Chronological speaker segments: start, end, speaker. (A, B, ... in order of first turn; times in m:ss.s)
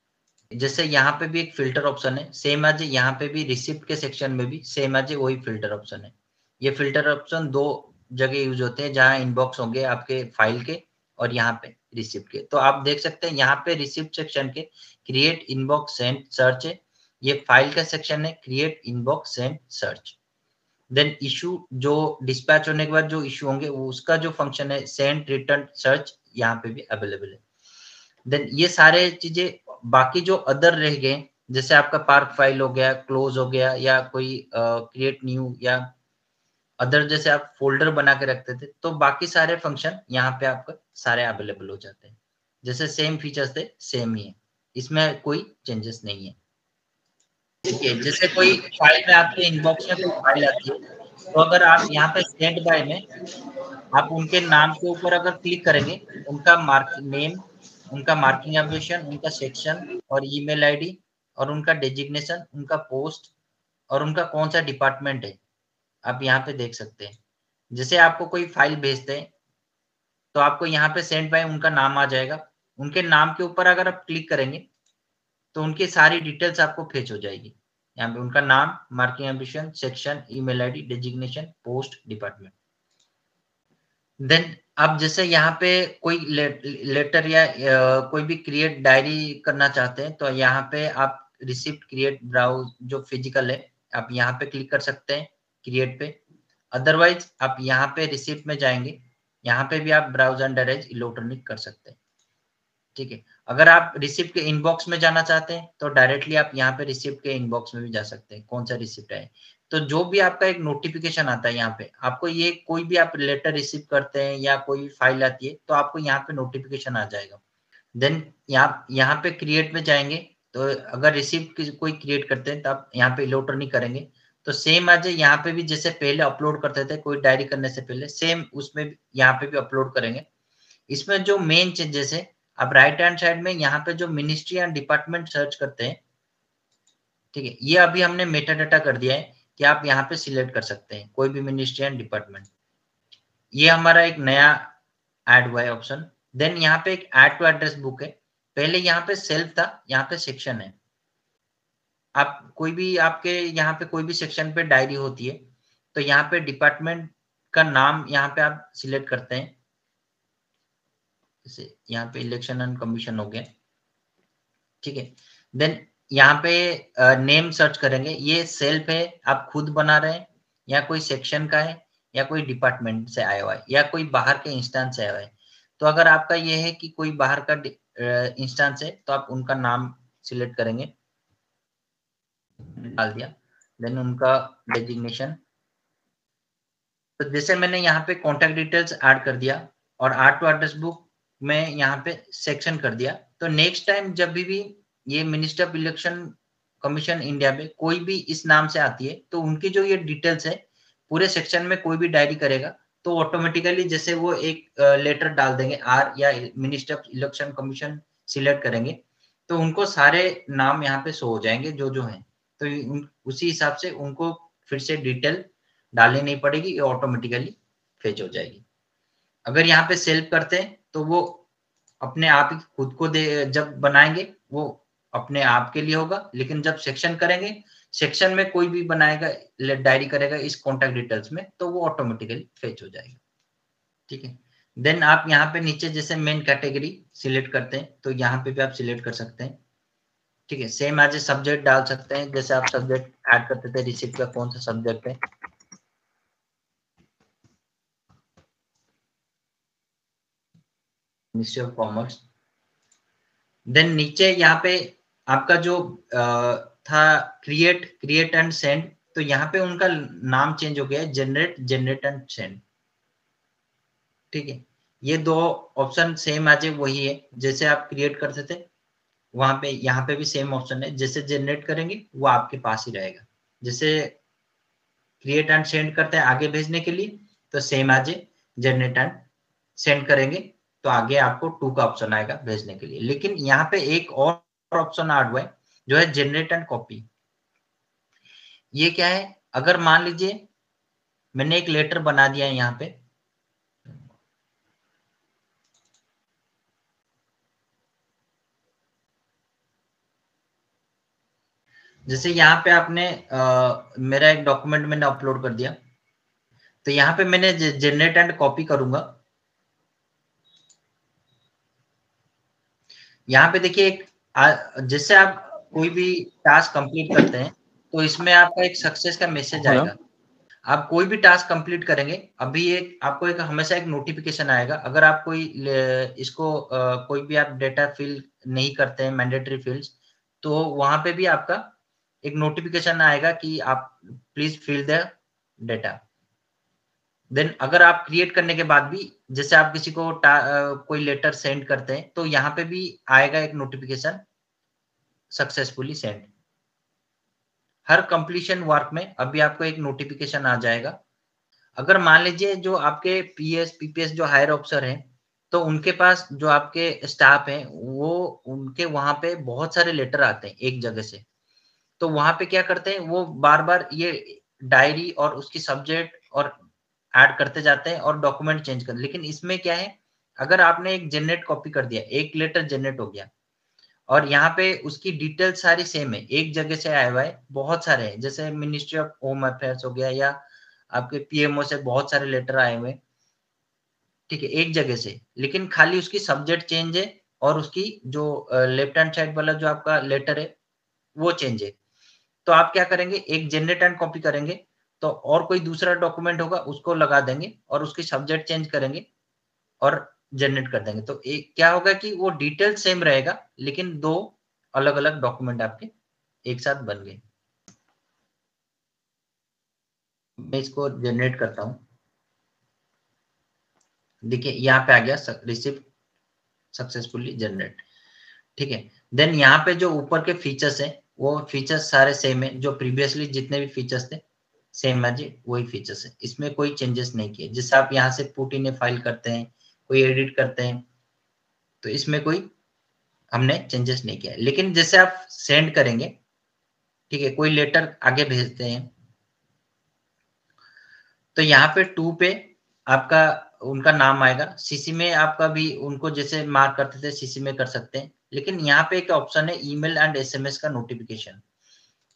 0:00.5-0:20.2 A
0:20.9-0:27.4 A
0:28.2-0:35.9 A
0:36.8-0:46.4 A
0:47.7-0:50.8 A
0:51.3-0:53.0 A
0:53.9-1:03.3 A
1:03.9-1:05.4 A
1:06.0-1:07.2 A
1:07.7-1:09.3 A
1:10.3-1:14.6 A
1:15.5-1:22.5 A
1:24.2-1:36.2 A
1:36.7-1:42.0 A
1:42.9-1:57.4 A
1:58.0-2:10.2 A
2:10.9-2:16.0 A
2:17.3-2:22.5 A
2:23.5-2:24.7 A
2:25.3-2:30.7 A
2:32.2-2:35.4 A
2:35.9-2:39.5 A
2:41.4-2:43.5 A
2:44.8-3:00.9 A
3:02.7-3:05.4 A
3:07.2-3:38.6 A
3:39.4-3:41.4 A
3:42.0-3:53.2 A
3:54.1-3:59.6 A
4:00.5-4:05.2 A
4:11.3-4:12.2 A
4:13.7-4:22.6 A
4:24.3-4:28.6 A
4:29.3-4:34.1 A
4:35.2-4:39.2 A
4:39.8-4:47.1 A
4:48.7-4:50.4 A
4:51.3-4:53.0 A
5:02.1-5:05.8 A
5:06.8-5:09.2 A
5:13.3-5:20.0 A
5:20.6-5:31.7 A
5:32.2-5:36.0 A
5:37.3-5:44.2 A
5:45.3-5:46.3 A
5:47.9-5:51.0 A
5:51.8-6:01.2 A
6:02.0-6:06.6 A
6:07.2-6:13.3 A
6:14.1-6:20.4 A
6:20.9-6:23.0 A
6:24.3-6:30.5 A
6:31.2-6:31.7 A
6:32.4-6:39.0 A
6:39.8-6:45.9 A
6:46.4-6:47.2 A
6:50.4-6:51.8 A
6:54.2-6:55.8 A
6:56.7-6:57.8 A
6:58.6-7:04.2 A
7:04.7-7:10.8 A
7:11.8-7:12.5 A
7:13.3-7:16.1 A
7:17.1-7:18.9 A
7:21.3-7:31.4 A